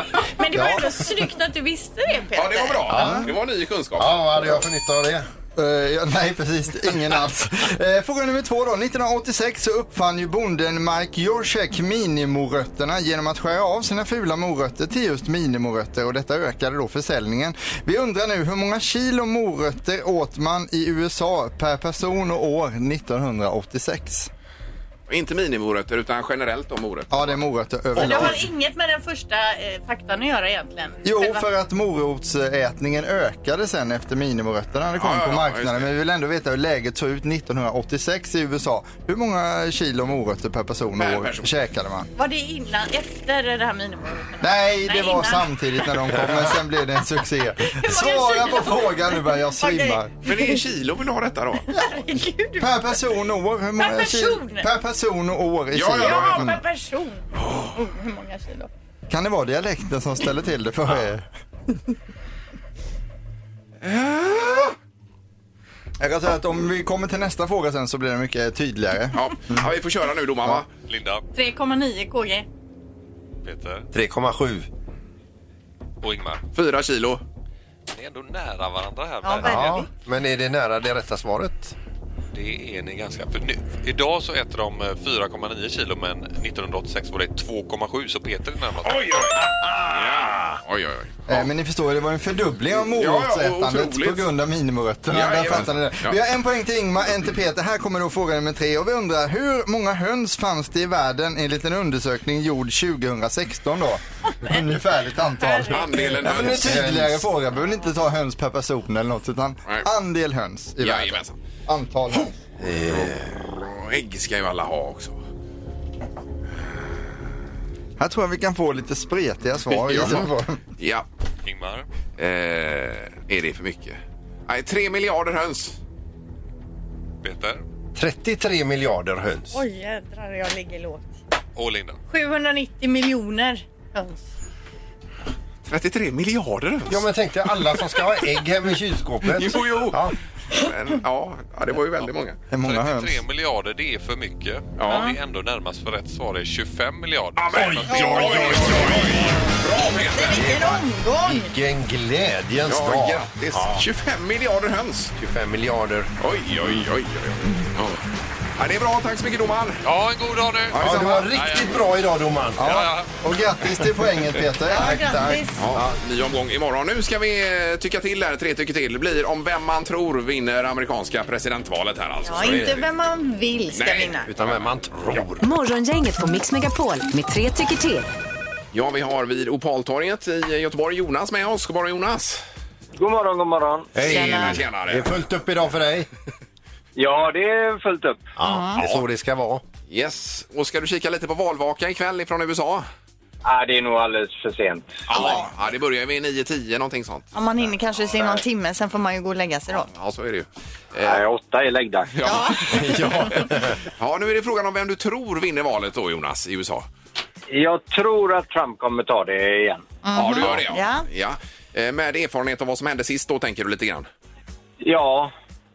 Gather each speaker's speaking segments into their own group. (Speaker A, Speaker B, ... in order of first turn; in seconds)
Speaker A: 0.2-3.1, 27.9-31.5, 42.2-45.5, 47.7-50.6, 51.7-53.2, 53.8-54.7, 56.0-58.7, 71.3-72.5, 79.2-79.9, 105.4-105.9, 129.5-131.2, 132.1-134.2, 147.9-148.4, 150.1-151.5, 164.7-165.6, 172.2-174.3, 184.1-184.6, 188.4-188.8, 195.1-195.5, 197.3-199.9, 202.2-203.4, 210.0-211.1
Speaker B: 0.5-1.0, 2.9-3.3, 4.0-5.3, 73.9-74.7, 79.4-81.8, 106.2-107.3, 112.6-113.5, 128.0-129.6, 136.9-140.2, 148.4-149.2, 150.4-150.7, 151.2-153.9, 155.2-156.1, 160.8-162.9, 172.4-172.8, 174.3-175.5, 184.0-186.1, 188.4-189.6, 202.7-203.8
Speaker C: 2.4-4.4, 25.1-27.4, 28.0-28.4, 35.0-35.9, 41.0-41.5, 50.3-51.7, 55.7-56.5, 57.4-57.8, 63.8-64.8, 69.1-70.7, 76.5-77.2, 88.8-91.5, 92.8-94.3, 95.1-96.2, 105.7-106.8, 110.8-111.4, 113.0-115.2, 119.7-121.1, 122.2-125.8, 135.7-138.1, 139.3-142.4, 144.8-145.1, 147.4-150.7, 152.7-155.1, 156.2-158.0, 158.6-159.8, 160.7-161.2, 165.6-172.8, 173.7-174.7, 178.7-182.4, 184.1-185.2, 188.8-189.0, 189.9-192.9, 195.1-197.3, 199.8-201.3, 202.1-206.9, 210.1-214.1
Speaker D: 5.6-24.3, 27.1-28.5, 31.0-42.1, 44.4-50.1, 52.6-56.6, 59.1-61.9, 66.0-69.7, 91.3-112.3, 118.0-120.6, 142.5-143.2, 162.6-165.4
Speaker E: 70.9-71.2, 73.4-73.9, 76.0-76.4, 77.9-79.8, 82.3-89.2, 121.5-121.9, 127.2-127.6, 131.6-132.0, 142.6-149.0, 159.8-161.8, 162.6-163.1
Speaker F: 175.4-178.1
Speaker G: 183.0-183.9, 187.0-188.2, 193.4-195.0, 201.0-202.2, 207.5-209.9, 214.8-215.3